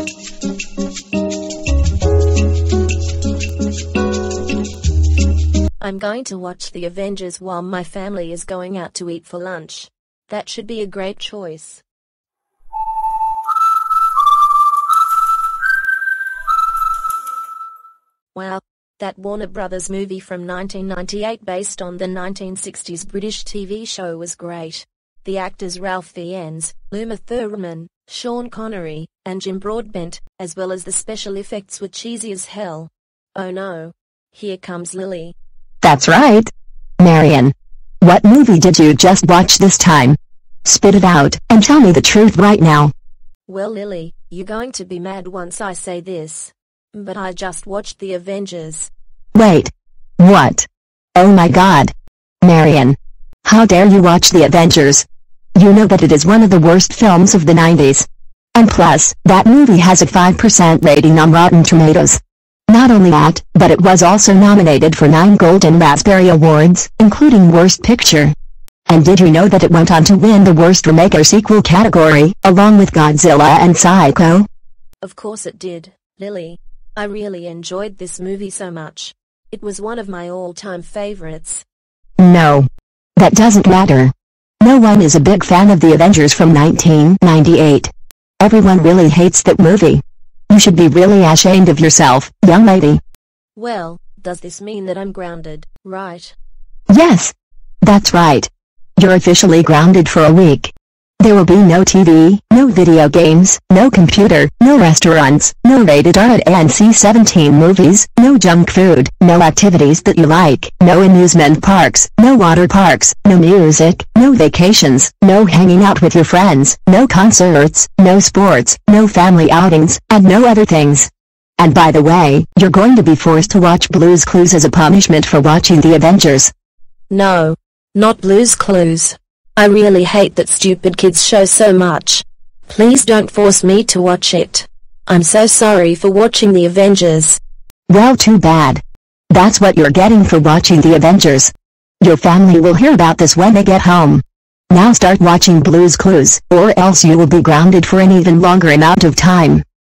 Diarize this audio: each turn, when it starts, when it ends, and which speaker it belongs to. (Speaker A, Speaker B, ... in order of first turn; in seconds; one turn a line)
Speaker A: 5.8-11.8
Speaker A: 18.3-35.4
Speaker B: 35.8-42.9
Speaker A: 43.5-48.9
Speaker B: 49.3-68.3
Speaker B: 68.9-74.5
Speaker A: 75.0-81.7
Speaker B: 82.2-93.0
Speaker A: 93.5-96.4
Speaker B: 96.9-126.5
Speaker A: 127.1-137.4
Speaker B: 137.9-149.7